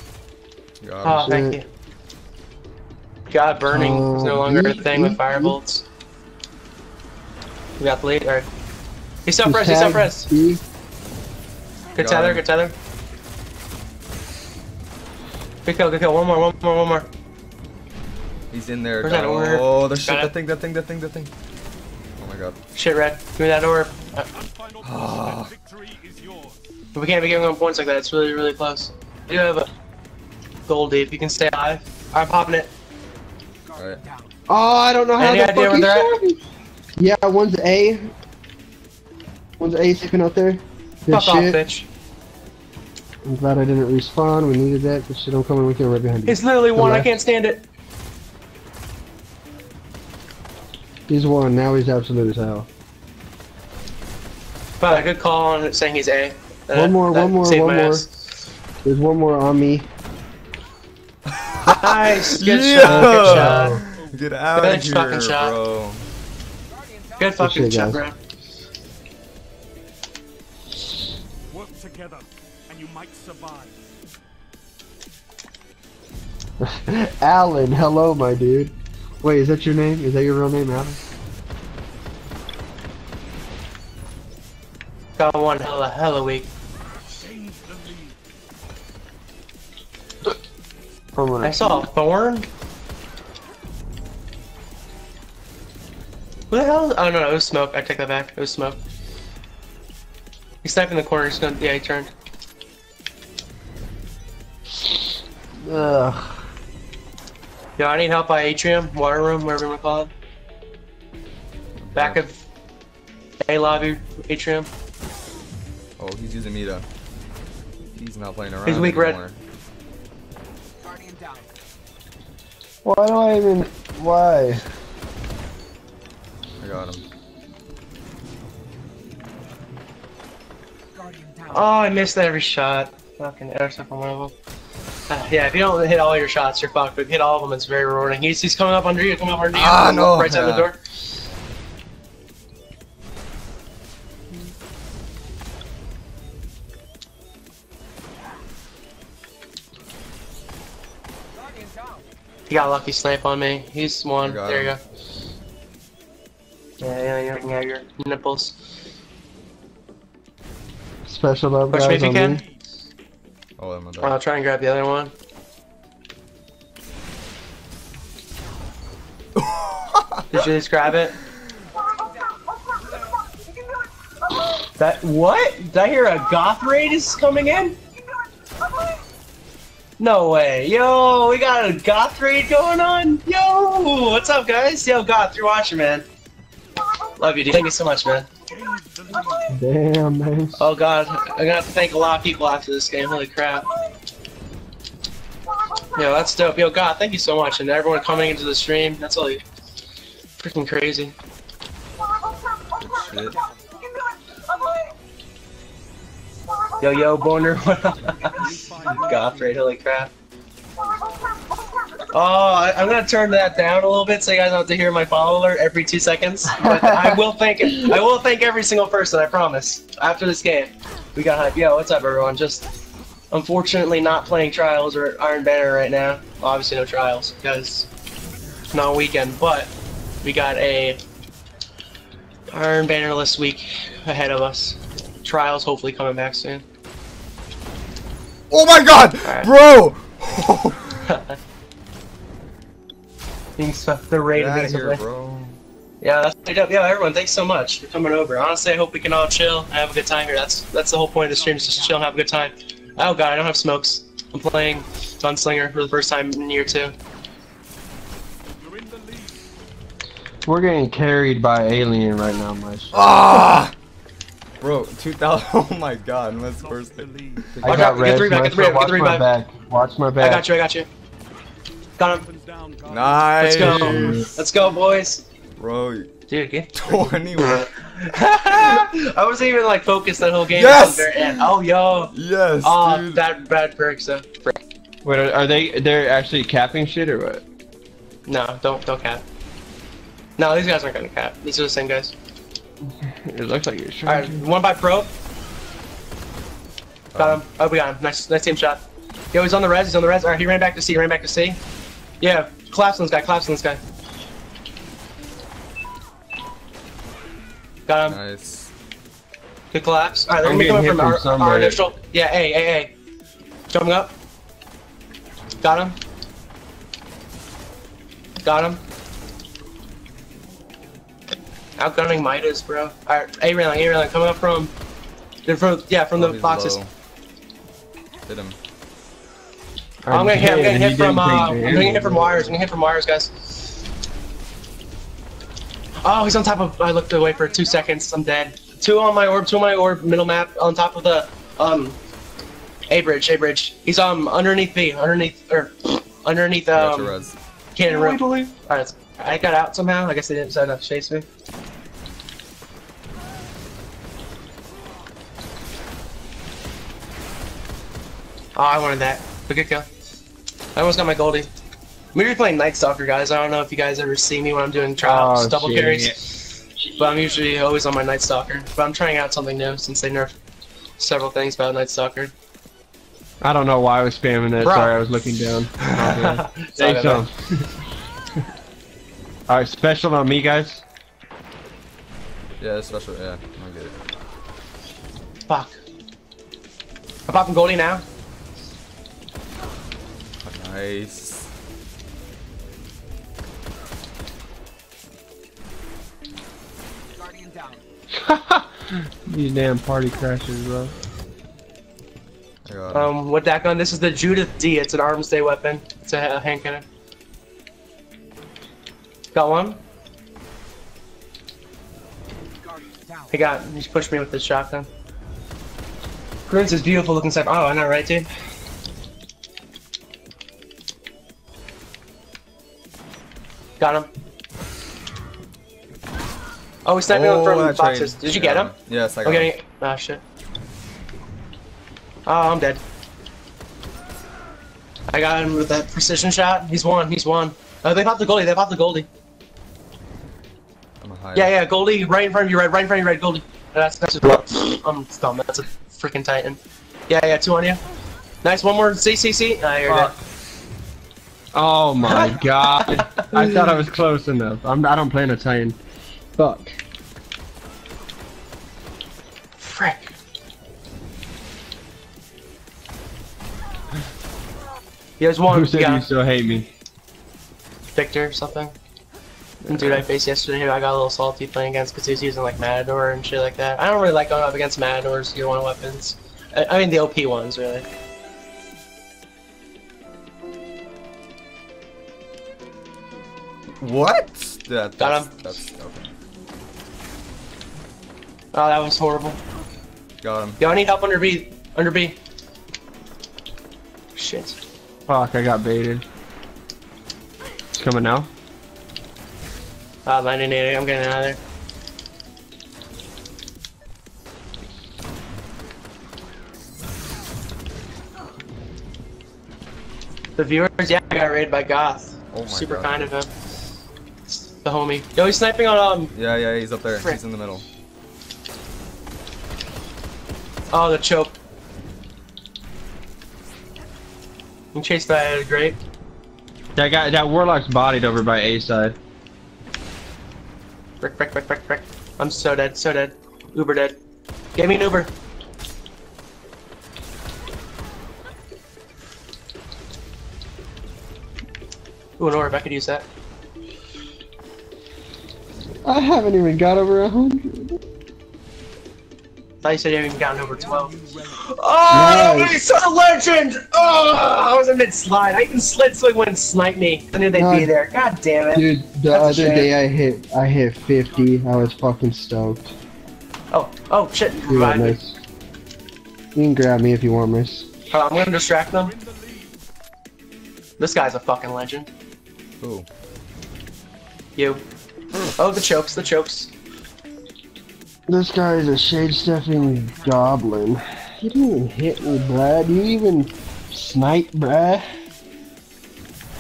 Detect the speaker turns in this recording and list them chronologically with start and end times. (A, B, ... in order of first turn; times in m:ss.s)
0:00.8-0:01.3 A
0:01.0-0:01.7 B
0:01.1-0:01.6 C
0:03.3-0:05.9 B
0:03.7-0:05.6 C
0:07.8-0:08.5 B
0:09.3-0:10.3 B
0:09.4-0:10.6 C
0:12.0-0:12.4 A
0:12.0-0:12.8 B
0:15.6-0:17.1 B
0:18.5-0:21.3 A
0:19.0-0:20.3 B
0:22.2-0:22.6 A
0:22.7-0:24.3 B
0:24.4-0:26.6 D
0:24.8-0:25.6 A
0:26.9-0:29.7 B
0:30.7-0:32.7 B
0:33.7-0:34.0 A
0:34.5-0:36.4 C
0:35.2-0:36.1 B
0:37.0-0:38.1 C
0:39.6-0:41.6 C
0:41.1-0:41.9 B
0:43.2-0:47.1 C
0:46.3-0:47.6 B
0:51.1-0:52.7 C
0:54.8-0:58.1 B
0:56.7-0:58.1 C
0:58.8-0:59.9 C
1:01.4-1:06.1 A
1:01.7-1:03.8 B
1:02.8-1:03.8 C
1:03.9-1:04.2 D
1:04.6-1:05.6 B
1:07.2-1:08.2 B
1:07.4-1:08.0 C
1:11.5-1:13.7 D
1:16.6-1:21.0 C
1:25.2-1:26.5 B
1:27.2-1:28.1 D
1:31.2-1:31.9 C
1:31.4-1:32.5 B
1:36.5-1:38.8 B
1:40.6-1:42.1 B
1:44.8-1:45.1 C
1:45.6-1:46.4 C
1:47.8-1:50.1 B
1:51.8-1:52.2 A
1:52.0-1:52.4 B
1:53.4-1:54.7 B
1:56.0-1:56.9 A
1:58.0-1:59.4 A
1:58.6-1:59.2 B
2:02.8-2:04.6 C
2:06.6-2:07.0 A
2:11.5-2:14.3 B
2:15.1-2:20.8 B
2:19.5-2:20.7 A
2:32.5-2:34.8 B
2:34.2-2:34.7 A
2:36.8-2:38.6 B
2:41.1-2:42.4 C
2:41.7-2:42.4 B
2:43.6-2:44.2 A
2:44.0-2:45.1 B
2:49.4-2:50.4 A
2:50.3-2:51.2 B
2:54.6-2:57.8 B
3:00.0-3:06.1 B
3:07.2-3:08.3 B
3:08.5-3:09.4 D
3:09.5-3:10.7 C
3:10.6-3:13.7 B
3:16.0-3:19.4 B
3:20.4-3:21.2 B
3:22.8-3:23.4 A
3:26.8-3:30.1 B
3:28.1-3:29.6 D
3:32.1-3:42.7 B
3:36.5-3:37.2 C
3:43.3-3:47.9 B
3:48.7-3:49.7 B
3:50.2-3:51.0 B
3:52.5-3:56.6 B
3:58.5-4:01.1 A
3:59.2-3:59.5 B
4:01.0-4:01.4 B
4:03.6-4:05.0 B
4:04.3-4:05.6 A
4:06.0-4:16.9 B
4:18.6-4:19.4 D
4:20.5-4:23.1 C
4:22.9-4:23.7 A
4:24.6-4:27.9 A
4:26.6-4:27.8 D
4:27.6-4:30.4 C
4:27.7-4:29.3 B
4:30.2-4:30.9 B
4:32.0-4:32.2 B
4:32.2-4:33.4 D
4:32.9-4:34.3 A
4:33.4-4:35.2 B
4:33.6-4:34.3 C
4:35.6-4:36.1 A
4:36.3-4:42.1 B
4:36.7-4:37.7 A
4:40.5-4:41.5 A
4:42.1-4:43.2 A
4:42.6-4:44.5 B
4:45.0-4:47.4 C
4:48.3-4:49.2 B
4:50.4-4:52.1 B
4:53.3-4:54.4 C
4:54.0-4:55.1 B
4:57.1-4:57.4 A
4:57.2-4:58.8 B
4:59.3-5:01.6 B
5:02.2-5:03.8 B
5:07.9-5:08.2 B
5:08.1-5:08.7 A
5:09.7-5:12.9 B
5:10.4-5:11.8 C
5:13.7-5:14.1 B
5:15.6-5:16.0 B
5:18.4-5:18.8 B
5:21.8-5:24.7 B
5:25.5-5:26.8 B
5:26.1-5:26.9 A
5:28.3-5:28.6 A
5:30.0-5:32.5 C
5:30.1-5:33.8 B
5:36.0-5:42.0 B
5:42.9-5:47.2 B
5:46.7-5:47.4 A
5:47.8-5:51.3 B
5:47.9-5:48.5 C
5:58.6-5:59.9 B
6:00.8-6:01.5 B
6:02.1-6:10.3 B
6:05.0-6:06.2 C
6:11.0-6:12.3 B
6:13.4-6:17.3 C
6:14.6-6:15.0 B
6:15.8-6:17.3 B
6:19.5-6:20.8 C
6:22.6-6:24.0 A
6:25.5-6:25.8 B
6:27.3-6:28.0 B
6:30.4-6:31.5 A
6:38.2-6:40.9 C
6:42.7-6:43.1 A
6:42.9-6:46.8 B
6:49.3-6:49.8 B
6:53.3-6:54.9 B
6:56.5-6:58.3 B
7:03.8-7:04.1 B
7:06.8-7:08.7 B
7:07.1-7:09.5 A
7:09.2-7:10.2 B
7:12.3-7:12.8 B
7:15.1-7:19.1 B
7:21.0-7:21.5 A
7:21.3-7:27.8 B
7:28.4-7:30.2 B
7:29.9-7:30.1 C
7:31.5-7:35.8 C
7:32.0-7:33.7 B
7:36.4-7:36.8 C
7:39.6-7:40.1 B
7:45.2-7:46.1 B
7:45.5-7:46.7 C
7:48.0-7:48.8 B
7:49.6-7:50.0 C
7:49.7-7:57.9 B
8:03.8-8:06.1 A
8:05.0-8:05.3 B
8:08.5-8:09.4 B
8:10.2-8:10.6 A
8:10.6-8:12.2 B
8:14.2-8:14.6 B
8:15.1-8:16.0 C
8:17.7-8:18.3 C
8:20.1-8:21.4 B
8:30.4-8:33.3 B
8:32.3-8:33.1 A
8:34.4-8:36.1 B
8:36.1-8:37.6 A
8:36.9-8:37.2 B
8:40.7-8:41.3 B
8:44.7-8:45.8 B
8:46.8-8:49.0 C
8:51.0-8:54.0 B
8:54.6-8:55.1 B
9:02.2-9:03.1 B
9:05.8-9:07.8 C
9:09.6-9:19.7 B
9:11.9-9:12.6 C
9:17.3-9:17.7 C
9:18.5-9:22.7 C
9:23.5-9:25.0 B
9:24.5-9:25.2 C
9:26.4-9:27.7 C
9:27.9-9:29.0 B
9:29.0-9:29.5 D
9:30.8-9:31.9 B
9:32.6-9:32.9 A
9:34.4-9:34.6 B
9:35.4-9:36.5 B
9:38.1-9:44.8 C